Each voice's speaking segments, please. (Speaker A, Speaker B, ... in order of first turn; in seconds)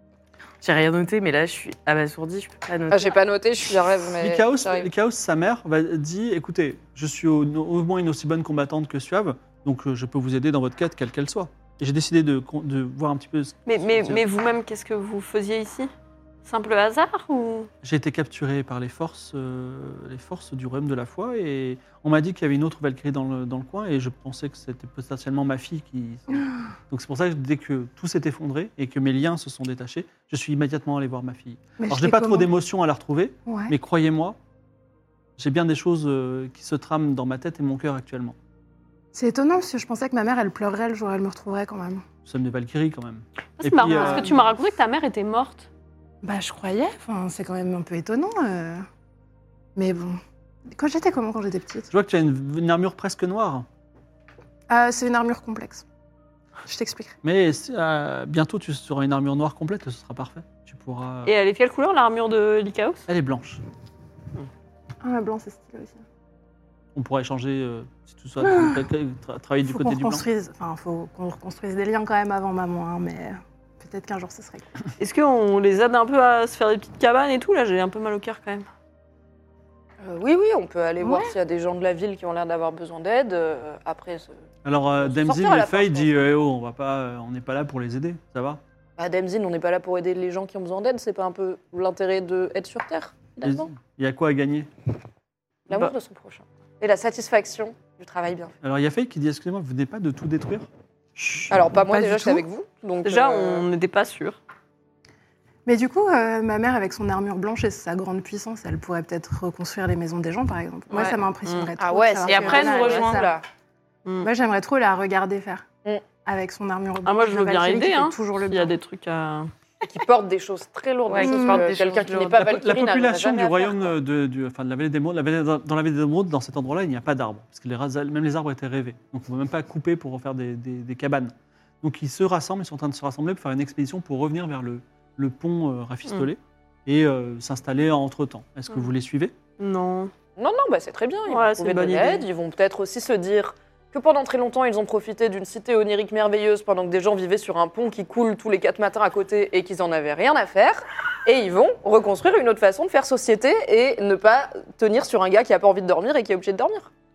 Speaker A: 0.6-3.2, 121.1-122.4
Speaker B: 2.9-4.9, 80.0-84.4, 85.0-86.1, 89.0-93.7, 95.7-98.5, 101.5-103.7, 111.8-113.4, 119.8-123.9, 140.4-156.9
Speaker C: 4.2-14.2, 17.8-34.4, 35.4-38.4, 42.2-44.3, 51.9-53.6, 57.2-61.3, 63.1-63.6, 66.9-70.2, 84.6-88.6, 93.4-94.7, 98.6-101.5, 122.3-139.3
Speaker D: 13.7-15.9, 16.4-17.7, 43.6-45.7, 61.2-63.0, 75.0-78.7, 103.0-104.4, 111.4-111.7, 112.2-113.2, 117.0-119.5, 121.1-122.1, 139.6-140.1, 141.3-142.3
Speaker E: 31.8-32.5, 33.5-33.7, 39.1-42.0, 43.9-44.3, 46.2-48.8, 49.8-51.9, 54.7-55.8, 56.6-57.1, 65.0-66.0, 68.4-68.8, 69.7-74.8, 81.0-81.4, 101.7-102.5, 105.7-113.3, 114.2-115.7, 116.2-118.7